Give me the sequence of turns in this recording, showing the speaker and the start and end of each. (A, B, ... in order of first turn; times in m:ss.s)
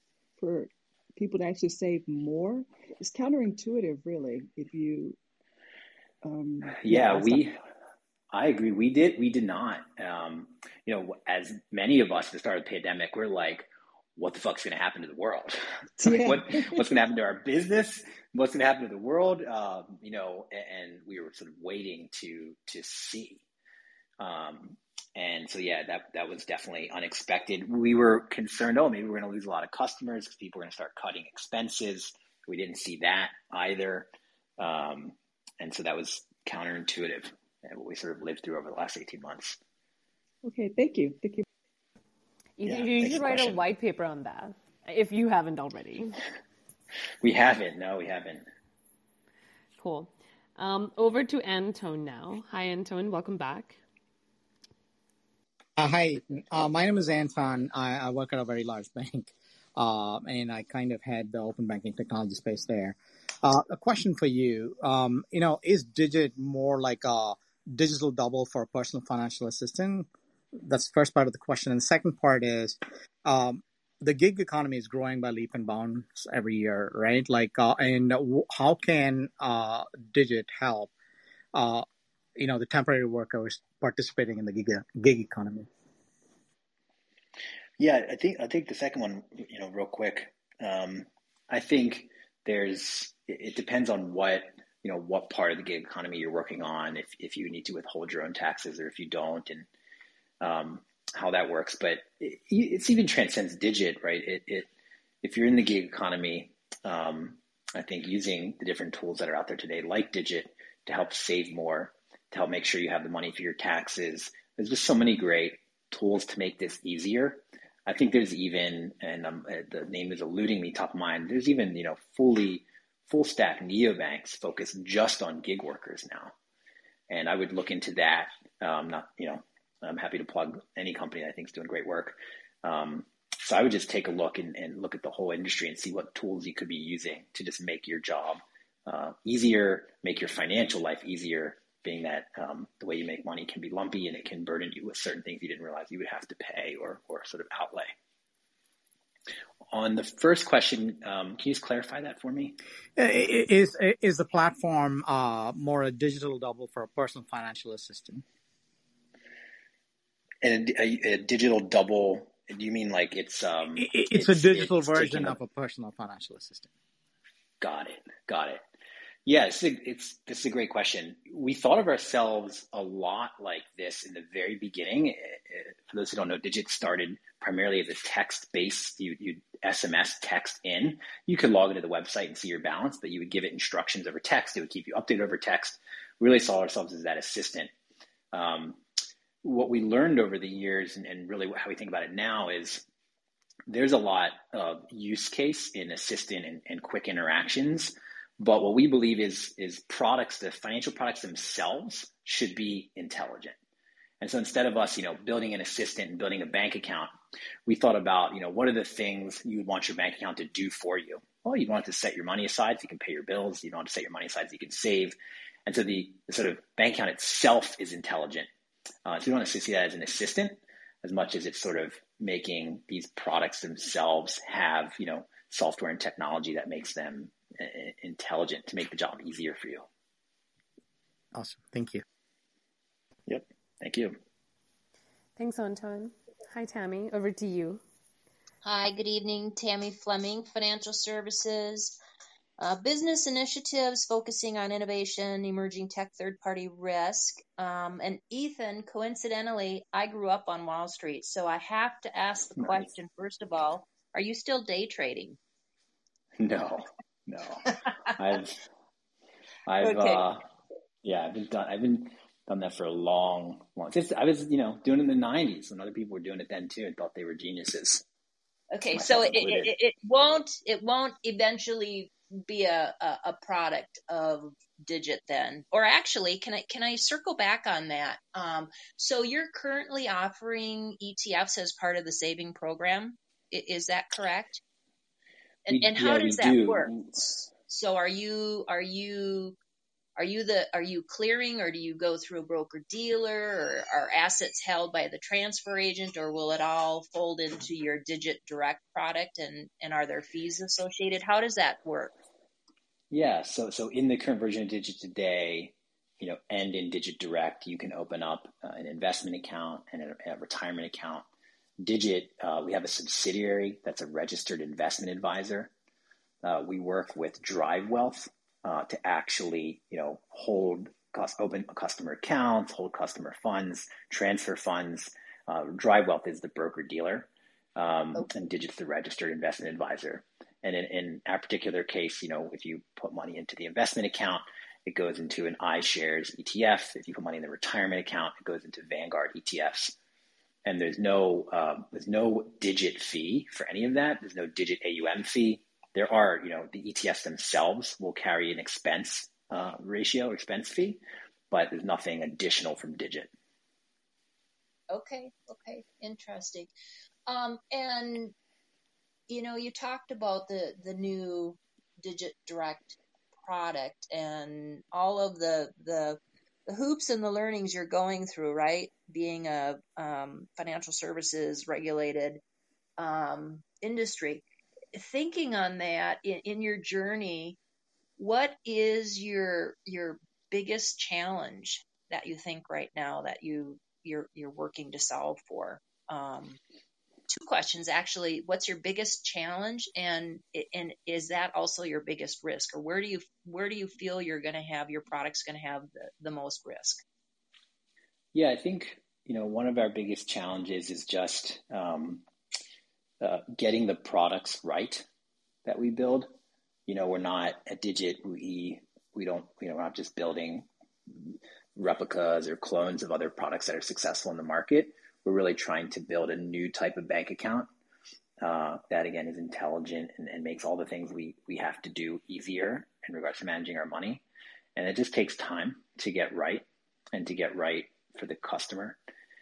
0:00.4-0:05.2 A
0:06.2-0:07.5 A
0:06.8-0:07.6 B
0:08.3-0:23.4 B
0:16.0-0:16.8 A
0:24.2-0:39.6 B
0:40.4-0:41.4 A
0:42.6-0:46.2 C
0:42.6-0:43.6 B
0:47.2-0:48.4 B
0:49.8-0:53.8 C
0:55.8-1:10.1 D
1:10.6-1:20.9 D
1:21.5-1:21.8 D
1:22.4-1:25.7 D
1:27.8-1:39.7 B
1:40.4-1:44.7 B
1:45.2-2:06.3 B
2:07.1-2:27.9 B
2:29.7-2:32.6 B
2:33.0-2:38.2 D
2:40.4-2:45.4 B
2:43.8-2:46.7 D
2:47.6-2:48.6 B
2:49.3-3:07.7 B
3:08.3-3:08.8 B
3:09.4-3:12.8 B
3:13.7-3:23.6 B
3:24.2-3:27.1 B
3:27.6-3:38.5 B
3:39.0-3:49.9 B
3:51.3-3:52.0 D
3:53.3-3:54.2 B
3:55.4-3:57.8 C
3:58.6-4:02.0 E
4:02.6-4:15.4 E
4:12.6-4:12.9 B
4:16.4-4:18.6 B
4:19.6-4:20.4 B
4:19.8-4:20.2 E
4:21.0-4:28.0 B
4:28.7-4:44.6 E
4:28.9-4:29.7 B
4:45.6-4:49.6 E
4:45.7-4:47.4 B
4:50.2-5:02.2 E
5:03.1-5:11.3 B
5:11.8-5:15.7 B
5:16.4-5:40.0 B
5:40.6-5:53.3 B
5:54.9-5:56.7 E
5:57.3-5:58.3 E
5:59.3-6:12.4 E
6:13.0-6:17.6 E
6:18.2-6:26.6 E
6:27.3-6:37.0 E
6:38.3-6:42.2 B
6:43.2-6:45.0 B
6:45.6-6:46.3 B
6:46.9-6:57.7 B
6:58.4-7:04.2 B
7:04.8-7:09.0 B